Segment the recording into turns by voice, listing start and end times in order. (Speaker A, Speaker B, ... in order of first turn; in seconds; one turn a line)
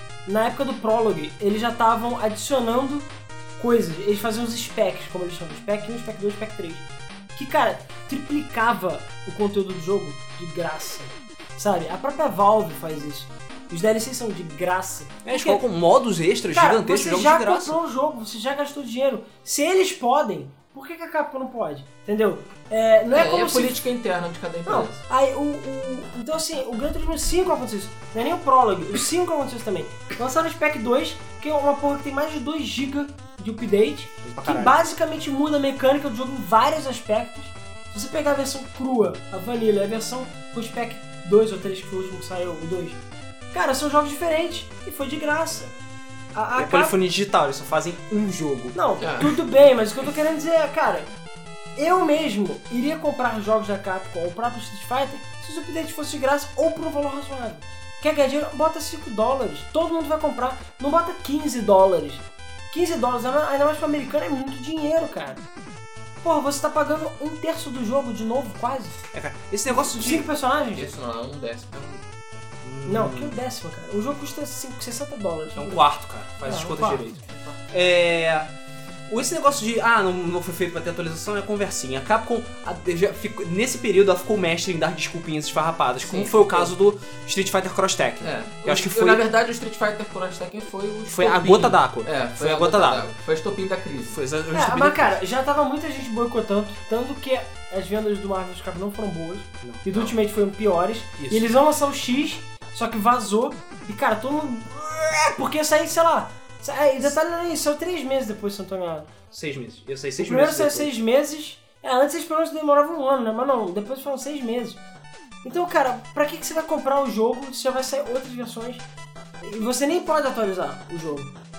Speaker A: 0.2-15.6
Speaker B: 15.2-17.8
Speaker A: 16.5-23.8
Speaker C: 23.1-25.0
Speaker A: 24.6-43.0
Speaker B: 34.2-34.8
Speaker A: 43.5-45.7
Speaker A: 46.3-46.9
Speaker B: 46.5-48.8
Speaker A: 48.7-51.1
Speaker C: 49.0-49.4
Speaker A: 51.8-65.4
Speaker A: 66.2-69.0
Speaker B: 69.1-70.2
Speaker A: 69.7-70.9
Speaker C: 70.7-72.0
Speaker B: 72.6-73.4
Speaker A: 72.8-75.8
Speaker B: 75.5-78.5
Speaker A: 76.4-77.0
Speaker C: 77.3-77.5
Speaker B: 79.1-89.2
Speaker C: 86.0-86.7
Speaker C: 88.2-94.2
Speaker B: 91.1-93.0
Speaker B: 94.1-95.2
Speaker A: 94.5-109.1
Speaker B: 101.2-101.5
Speaker B: 109.3-110.9
Speaker A: 110.2-114.8
Speaker A: 115.4-118.8
Speaker A: 119.4-121.3